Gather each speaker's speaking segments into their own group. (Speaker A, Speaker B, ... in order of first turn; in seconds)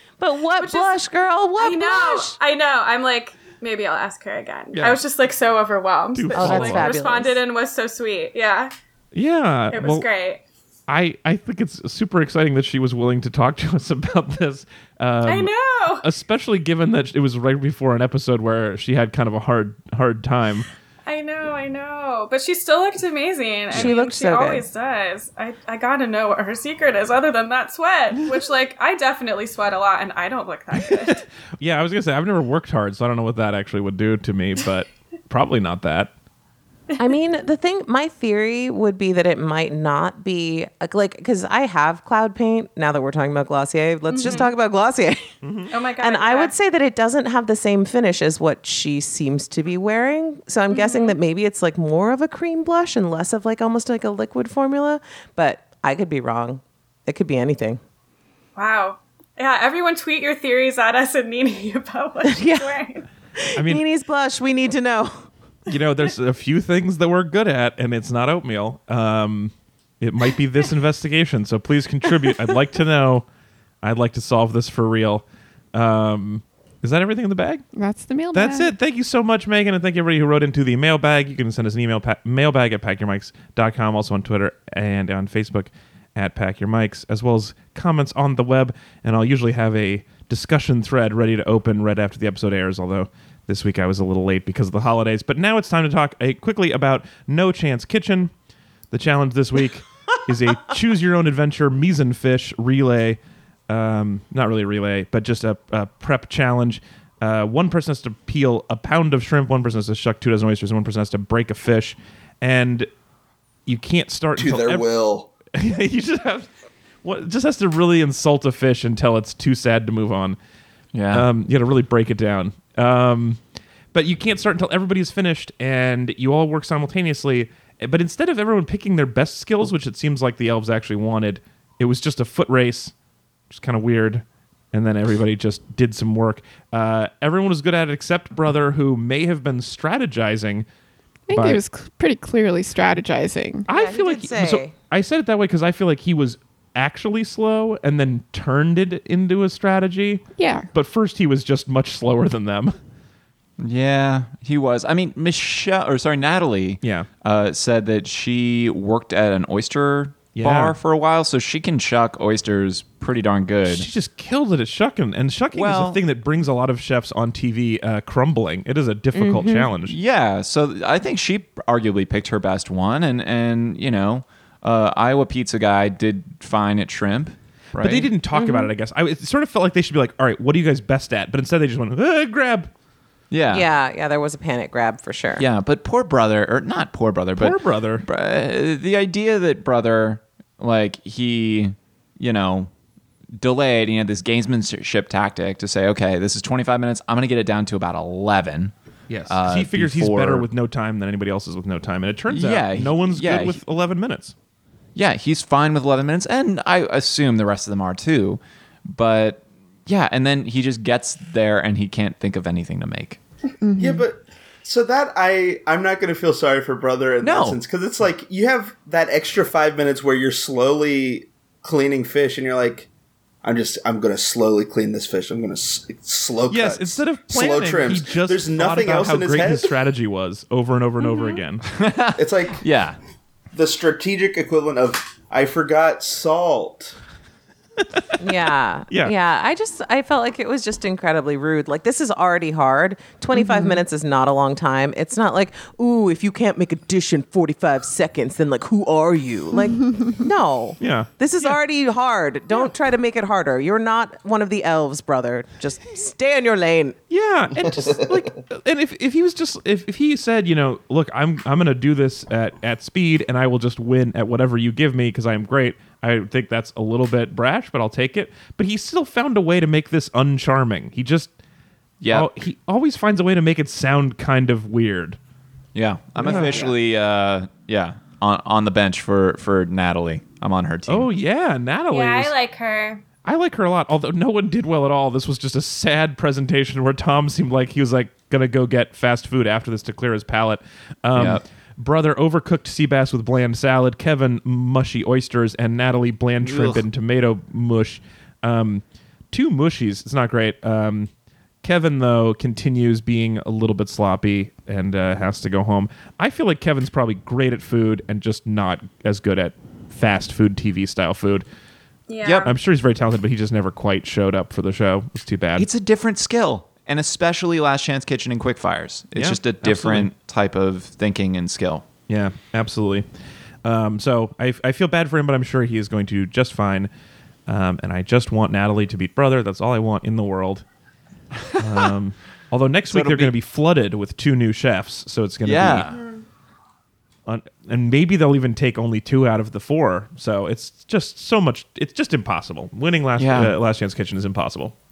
Speaker A: 0.2-2.4, 6.3-7.4, 23.7-24.6, 37.0-45.4, 46.0-57.8, 62.2-62.8, 63.4-65.3, 143.7-144.7, 169.1-169.7, 178.3-178.7, 183.5-185.4, 238.2-257.0
Speaker B: 0.6-0.9, 1.6-8.7, 9.7-10.4, 15.2-16.1, 21.1-31.3, 44.1-44.5, 45.7-46.5, 50.7-51.2, 58.6-63.1, 281.9-283.0, 312.1-312.6, 335.9-336.2
Speaker C: 6.1-7.0, 9.1-10.1, 10.9-20.7, 30.9-36.1, 45.4-45.7, 63.6-63.8, 65.7-73.3, 73.8-77.6, 78.3-98.3, 98.9-112.9, 113.7-114.9, 115.5-116.5, 117.0-120.4, 121.1-123.4, 123.9-132.9, 133.5-140.7, 141.3-141.6, 143.7-152.8, 156.8-157.1, 160.3-160.8, 163.7-170.0, 177.8-182.7, 187.4-188.1, 199.1-204.3, 226.5-231.7, 237.8-238.1, 250.8-251.6, 257.1-271.3, 272.1-275.2, 276.2-276.7, 280.9-282.3, 283.2-301.1, 301.6-311.4, 312.3-315.7, 319.1-320.1, 322.1-323.1, 323.6-326.9, 327.5-330.6, 331.6-335.9, 337.3-344.7
Speaker D: 77.7-78.7, 141.3-143.7, 150.4-150.7, 213.6-214.1, 243.3-243.8
Speaker E: 114.4-115.3, 213.8-222.9, 223.4-229.8, 232.2-232.6, 233.5-236.9, 257.7-258.2, 276.3-276.7
Speaker F: 120.9-121.3, 153.6-163.9, 165.5-166.0, 169.9-178.1, 183.3-183.7, 185.4-192.7, 193.4-198.7, 199.3-200.5, 202.3-203.6, 204.9-213.2, 217.2-217.6, 231.7-233.0, 272.0-272.3, 275.8-281.1, 291.1-291.4, 296.4-296.9, 315.6-321.9, 332.9-333.3, 335.4-335.9, 343.2-343.6